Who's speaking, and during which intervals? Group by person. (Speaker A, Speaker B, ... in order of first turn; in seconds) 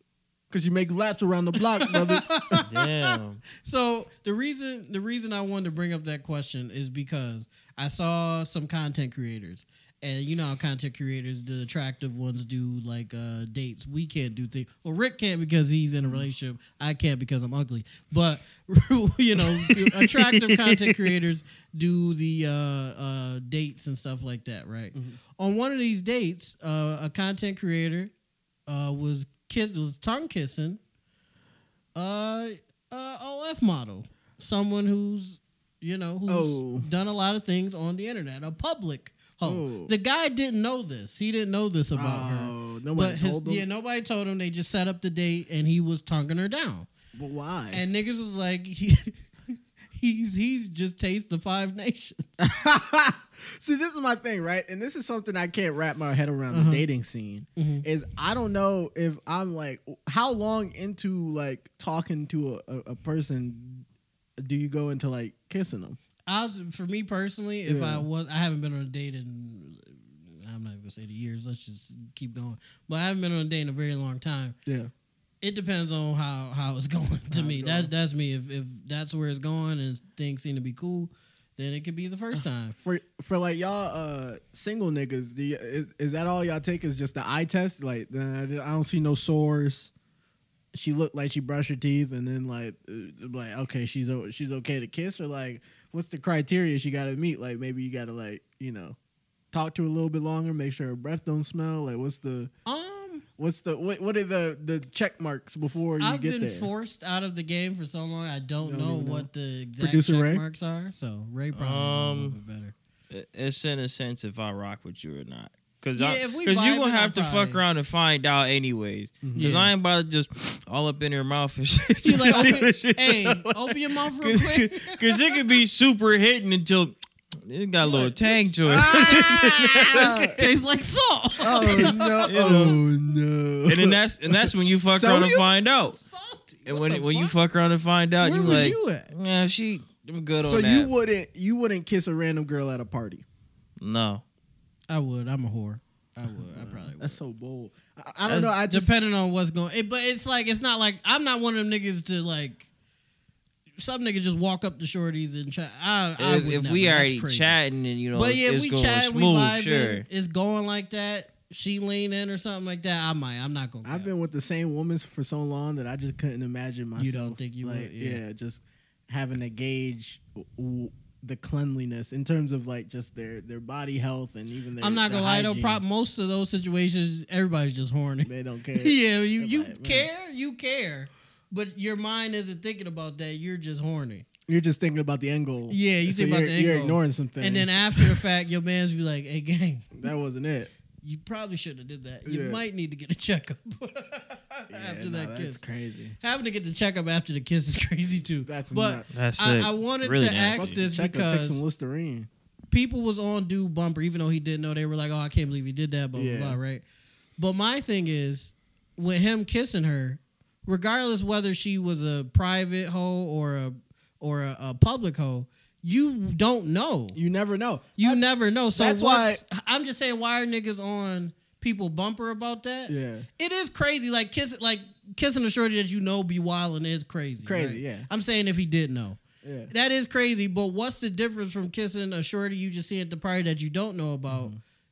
Speaker A: 0.5-2.6, 16.0-16.3, 36.3-36.9, 39.4-39.9, 41.9-43.6, 47.2-47.8, 52.4-63.9, 64.4-66.0, 67.7-68.1, 74.7-74.9, 77.3-77.9, 82.3-89.9, 90.7-99.0, 99.5-102.5, 103.4-106.7, 108.6-109.3, 109.8-110.4, 119.2-119.5, 122.3-122.6, 128.7-130.5, 131.4-135.5, 138.2-139.1, 140.4-143.2, 146.5-148.9, 163.8-175.8, 178.2-180.1, 184.5-188.2, 190.0-190.7, 192.2-192.6, 194.7-196.2, 198.5-199.2, 200.6-202.3, 206.2-206.6, 217.2-219.4, 222.9-223.3, 227.4-228.1, 229.4-229.7, 234.3-234.6
Speaker B: 1.8-28.1, 28.7-30.8, 31.9-46.9, 47.7-52.2, 56.5-56.8, 57.6-57.9, 66.3-74.6, 75.4-82.8, 102.7-103.2, 106.0-112.7, 116.0-117.6, 119.4-119.7, 122.0-125.1, 127.8-129.0, 129.9-132.8, 135.7-137.3, 138.2-139.1, 144.9-147.2, 148.6-152.7, 153.8-157.6, 158.1-164.1, 167.0-168.2, 174.8-184.3, 185.7-190.0, 191.0-195.6, 196.2-201.6, 202.7-206.8, 207.4-217.2, 218.0-234.5
Speaker C: 2.6-3.4, 19.8-21.1, 111.5-112.4, 113.1-130.4, 131.8-132.8, 133.7-136.0, 136.7-140.9, 143.8-144.2, 148.3-148.5, 156.2-160.1, 199.1-200.8